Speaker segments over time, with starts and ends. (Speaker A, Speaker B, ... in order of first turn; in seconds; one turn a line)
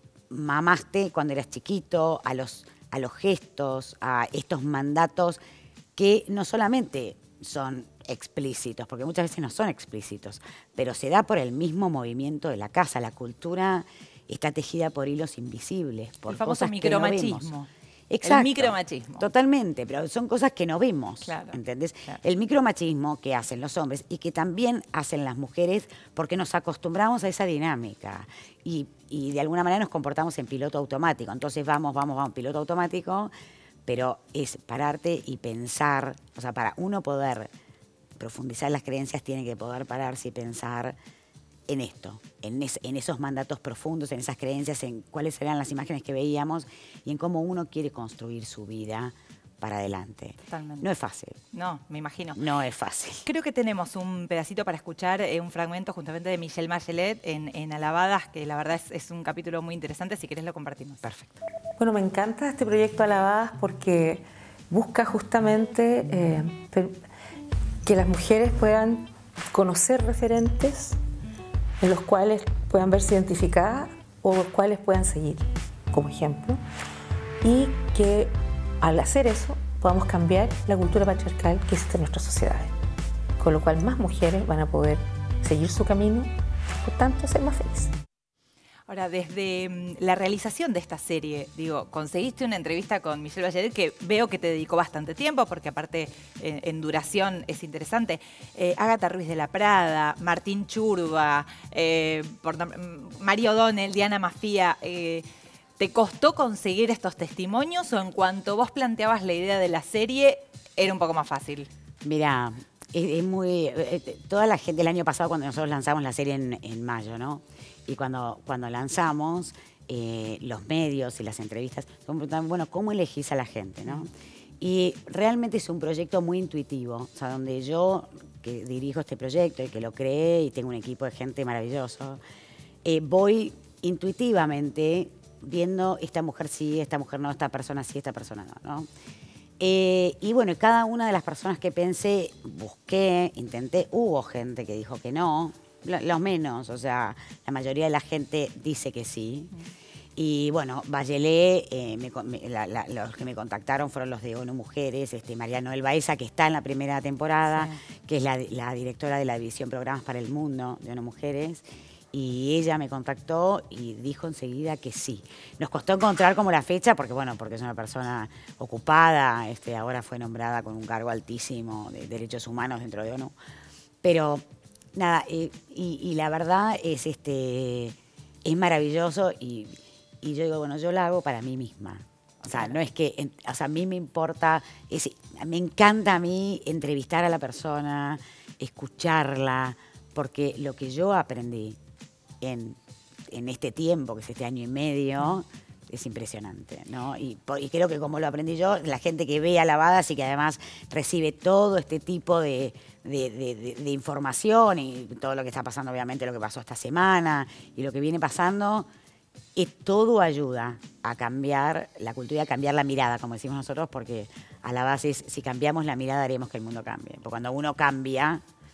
Speaker A: 0.3-5.4
Speaker A: 6.0-17.5
Speaker B: 16.3-17.7
Speaker A: 18.1-33.3
Speaker B: 18.2-19.3
Speaker B: 21.2-22.2
Speaker A: 33.9-37.5
Speaker A: 38.2-41.0
Speaker A: 41.7-51.4
Speaker B: 50.5-50.9
Speaker B: 51.5-52.4
Speaker A: 52.4-53.3
Speaker B: 53.2-61.0
Speaker A: 61.0-61.4
Speaker C: 61.8-66.9
Speaker C: 67.9-71.0
Speaker C: 71.8-76.6
Speaker C: 77.4-82.7
Speaker C: 83.4-86.3
Speaker C: 86.8-87.9
Speaker B: 88.9-105.3
Speaker B: 105.8-111.7
Speaker A: 112.0-132.2
Speaker A: 132.8-138.9
Speaker A: 139.6-149.5
Speaker A: 150.2-173.3
Speaker B: 157.5-157.8
Speaker A: 174.0-174.4
Speaker A: 174.9-191.8
Speaker B: 182.4-182.8
Speaker A: 192.4-192.8
Speaker A: 193.3-208.9
Speaker A: 209.6-218.4